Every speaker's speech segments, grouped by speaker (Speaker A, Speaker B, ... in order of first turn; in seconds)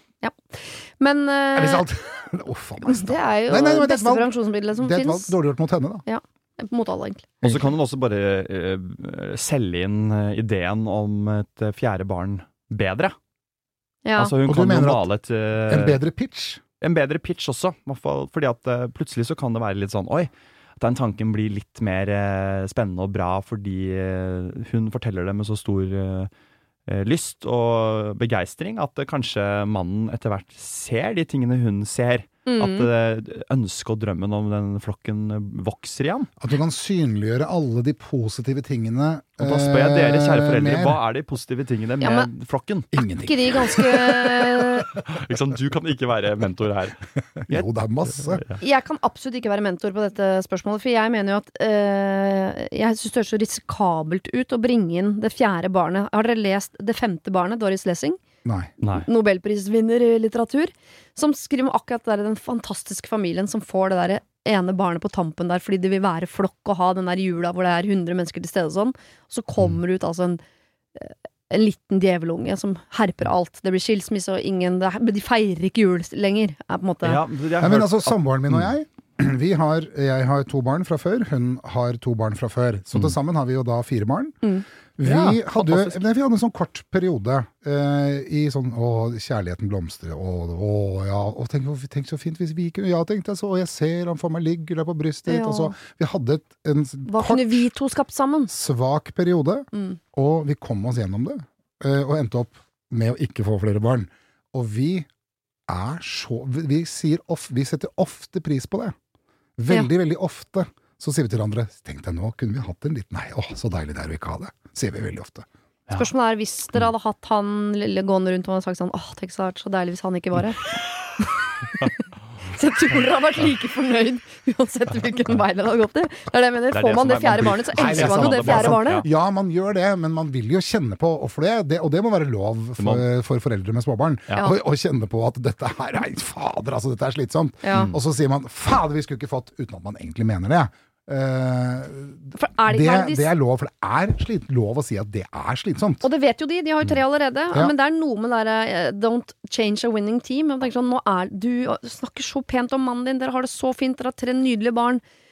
Speaker A: 0.2-1.9, 2.8-5.3, 6.0-7.4, 14.1-14.4, 32.5-32.9, 42.0-42.3, 43.2-44.9, 48.6-58.2, 58.8-70.4, 71.0-77.2, 95.3-95.7, 97.1-98.5, 99.7-100.0, 115.9-129.1, 137.6-137.9, 142.3-143.3, 146.0-155.0
Speaker B: 1.6-6.0, 14.5-15.1, 15.7-16.6, 36.4-41.0, 42.9-44.4, 47.4-48.4, 58.5-58.7, 77.6-84.4, 85.0-97.6, 98.5-105.1, 105.7-109.0, 109.6-115.5, 127.8-146.1
Speaker C: 7.4-13.2, 14.2-16.0, 16.8-26.3, 26.9-36.3, 39.4-42.9, 44.9-47.7, 48.2-48.6, 77.0-78.7, 85.0-86.0, 126.7-129.1, 132.8-133.0, 137.7-138.0